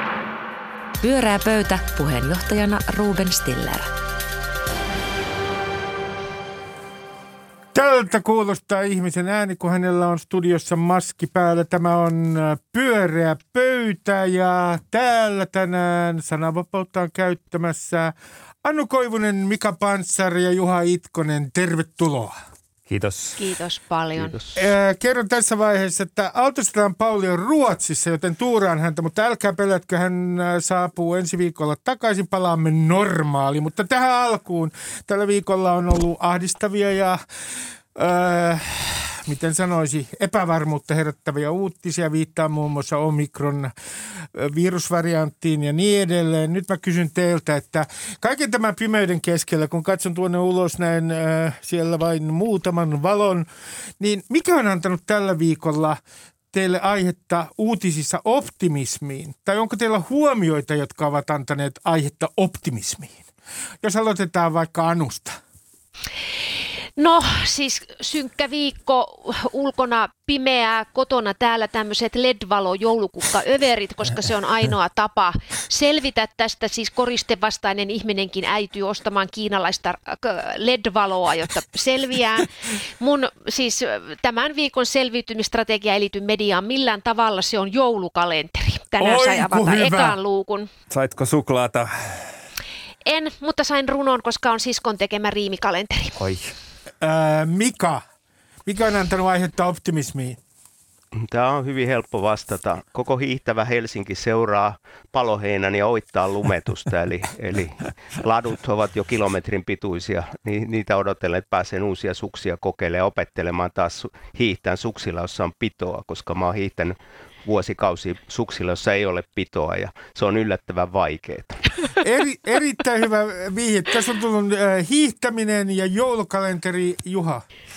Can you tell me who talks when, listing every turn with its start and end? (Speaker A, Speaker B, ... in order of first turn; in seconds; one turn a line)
Speaker A: 1.0-3.9
Speaker B: 7.7-22.4
Speaker C: 22.9-23.4
Speaker D: 23.4-24.4
Speaker B: 24.5-37.2
Speaker B: 37.9-43.7
Speaker B: 44.3-53.5
Speaker B: 54.0-56.0
Speaker B: 56.5-63.3
Speaker B: 63.8-65.4
Speaker D: 67.0-90.7
Speaker B: 89.0-90.2
Speaker C: 90.9-92.2
Speaker D: 93.0-96.2
Speaker C: 96.2-96.5
Speaker B: 97.0-98.0
Speaker B: 98.7-100.4
Speaker E: 101.1-121.6
Speaker B: 122.0-127.4